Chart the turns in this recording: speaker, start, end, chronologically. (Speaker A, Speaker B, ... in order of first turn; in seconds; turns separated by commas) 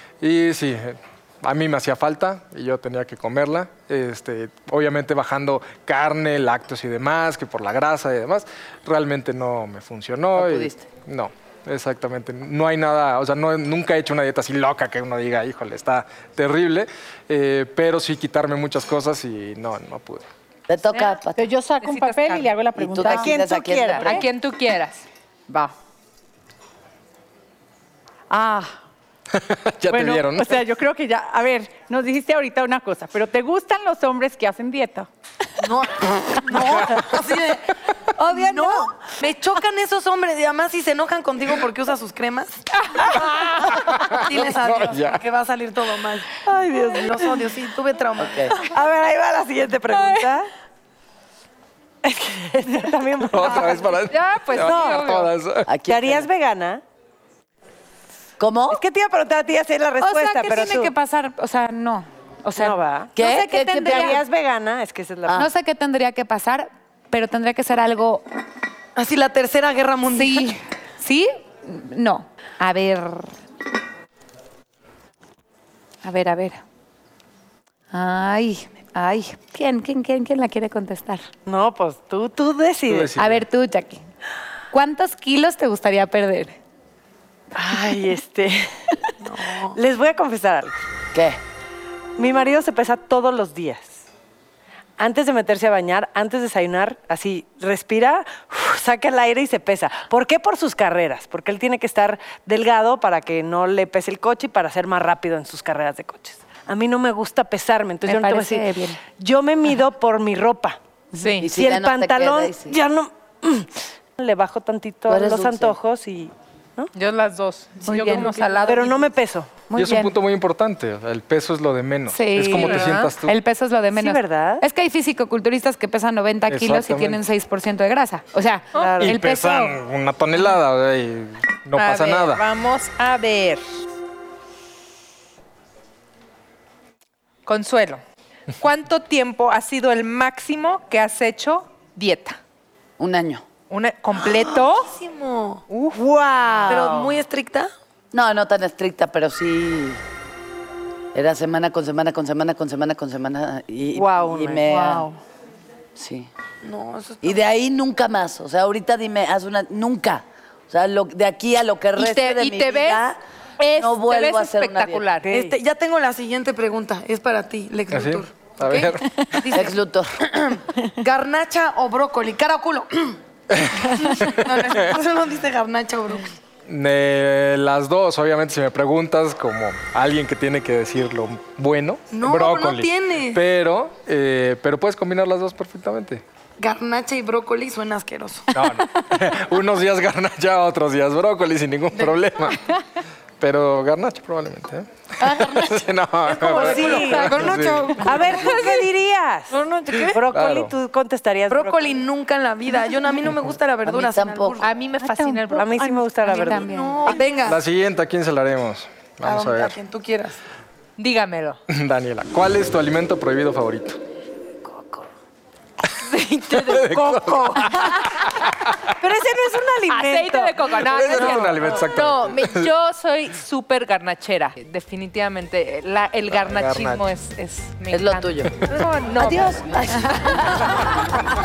Speaker A: 0.2-20.3, Speaker B: 10.3-10.8, Speaker B: 20.7-21.5, Speaker C: 21.3-23.4, Speaker D: 21.8-22.5, Speaker B: 22.8-24.2, Speaker E: 23.0-24.2, Speaker D: 23.9-25.1, Speaker C: 25.5-25.7, Speaker C: 28.3-28.8, Speaker A: 29.3-30.6, Speaker C: 29.9-35.1, Speaker F: 35.6-37.7, Speaker A: 36.8-37.1, Speaker E: 38.2-38.9, Speaker F: 38.4-42.6, Speaker D: 43.2-43.7, Speaker A: 43.7-45.2, Speaker F: 44.2-48.5, Speaker E: 46.4-47.4, Speaker B: 48.2-48.5, Speaker E: 48.5-50.5, Speaker D: 49.9-50.3, Speaker E: 52.0-54.0, Speaker A: 53.3-55.7, Speaker D: 53.6-55.3, Speaker E: 54.6-55.1, Speaker B: 55.7-56.3, Speaker E: 55.8-56.8, Speaker B: 58.4-58.8, Speaker E: 58.7-60.9, Speaker G: 60.0-62.8, Speaker E: 62.6-65.5, Speaker B: 63.2-64.2, Speaker G: 65.3-68.2, Speaker F: 69.0-70.6, Speaker G: 70.1-73.3, Speaker G: 76.0-76.6, Speaker G: 77.9-81.3, Speaker E: 81.5-83.1, Speaker A: 82.9-83.4, Speaker G: 83.2-84.0, Speaker G: 84.7-86.6, Speaker E: 87.5-88.8, Speaker F: 89.2-89.8, Speaker E: 89.6-90.8, Speaker B: 91.1-91.4, Speaker E: 92.2-94.0, Speaker E: 95.0-110.8, Speaker G: 108.1-109.0, Speaker D: 111.2-111.5, Speaker B: 111.4-112.8, Speaker E: 111.5-116.9, Speaker B: 115.1-115.8, Speaker D: 117.0-119.1, Speaker G: 117.8-118.4, Speaker E: 118.4-119.5, Speaker G: 119.7-120.2, Speaker A: 119.7-123.4, Speaker G: 122.1-129.8, Speaker E: 122.5-122.9, Speaker D: 122.6-123.1, Speaker E: 123.9-124.6, Speaker A: 126.5-127.2, Speaker D: 128.7-129.0, Speaker E: 128.7-129.2, Speaker A: 129.0-132.4, Speaker D: 131.8-133.7, Speaker D: 137.5-138.0, Speaker D: 138.6-142.4, Speaker B: 143.0-143.4, Speaker D: 143.7-144.9, Speaker F: 144.8-145.6, Speaker D: 145.7-146.0, Speaker E: 145.9-147.2, Speaker F: 146.7-147.7, Speaker B: 148.1-150.0, Speaker B: 151.1-155.1, Speaker E: 153.9-155.1, Speaker D: 154.7-155.1, Speaker B: 156.0-156.3, Speaker F: 156.6-157.4, Speaker B: 157.2-163.2, Speaker D: 162.0-163.1, Speaker D: 163.6-165.3, Speaker B: 163.7-165.1, Speaker E: 165.2-165.6, Speaker F: 165.3-173.2, Speaker A: 167.9-169.5, Speaker B: 169.5-170.1, Speaker A: 173.5-174.9, Speaker F: 173.9-176.3, Speaker A: 176.7-186.2, Speaker F: 182.1-183.4, Speaker F: 186.6-188.7, Speaker A: 188.5-192.7, Speaker F: 191.9-192.2, Speaker A: 193.4-197.9, Speaker F: 195.2-198.5, Speaker E: 196.4-202.0, Speaker D: 196.9-198.9, Speaker D: 199.5-200.2, Speaker A: 200.3-200.8, Speaker F: 201.5-204.7, Speaker B: 203.9-204.7, Speaker D: 204.6-206.4, Speaker G: 205.0-207.2, Speaker E: 205.5-206.7, Speaker F: 206.3-207.6, Speaker A: 207.5-209.8, Speaker F: 209.2-210.4, Speaker D: 211.0-211.6, Speaker A: 211.7-214.0, Speaker E: 214.7-215.1, Speaker D: 216.1-218.2, Speaker A: 216.5-218.8, Speaker E: 216.8-218.2, Speaker E: 219.0-221.9, Speaker D: 219.9-230.5, Speaker A: 220.8-222.7, Speaker A: 226.4-227.0, Speaker B: 227.9-228.5, Speaker B: 229.2-230.7